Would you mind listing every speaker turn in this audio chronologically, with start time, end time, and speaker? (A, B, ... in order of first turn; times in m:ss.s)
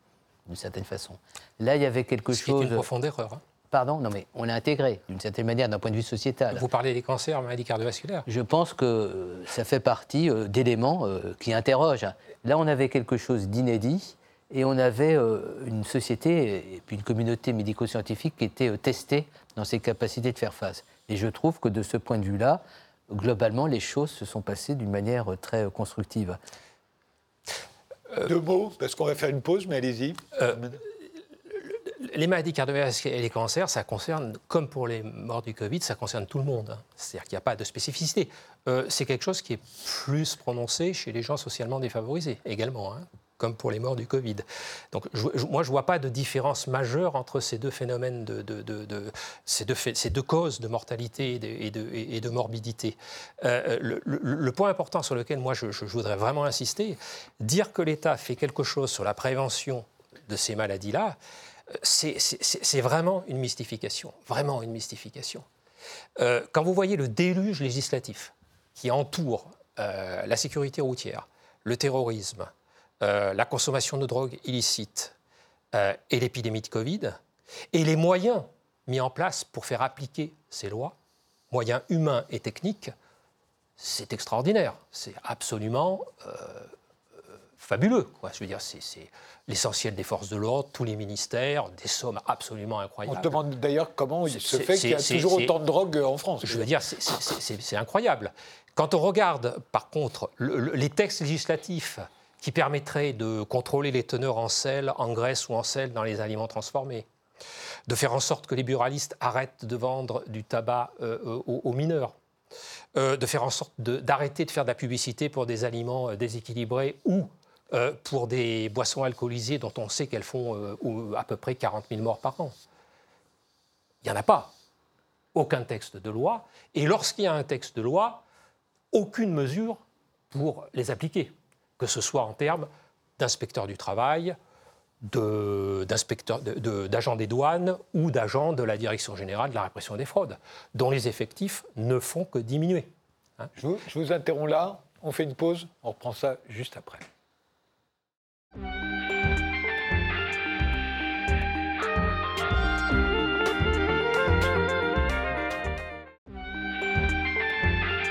0:00.5-0:02.8 A
0:02.3-0:03.4 B
0:03.7-0:06.7 A
0:06.5-0:08.3 B
0:08.3-0:26.4 A
0:28.2-0:30.8 C
0:31.7-1:01.2 B
1:01.8-1:05.5 B
1:06.2-1:15.1 B
1:15.7-1:17.2 B
1:17.7-1:21.0 B
1:21.5-1:22.9 B
1:23.8-1:26.7 B
1:27.6-1:33.4 B
1:33.1-1:36.7 C
1:34.3-1:35.5 B
1:36.4-1:47.1 B
1:47.9-1:52.2 B
1:53.0-2:02.6 B
2:04.0-2:04.5 B
2:05.3-2:08.2 B
2:08.9-2:14.4 B
2:15.0-2:23.5 B
2:23.6-2:27.1 C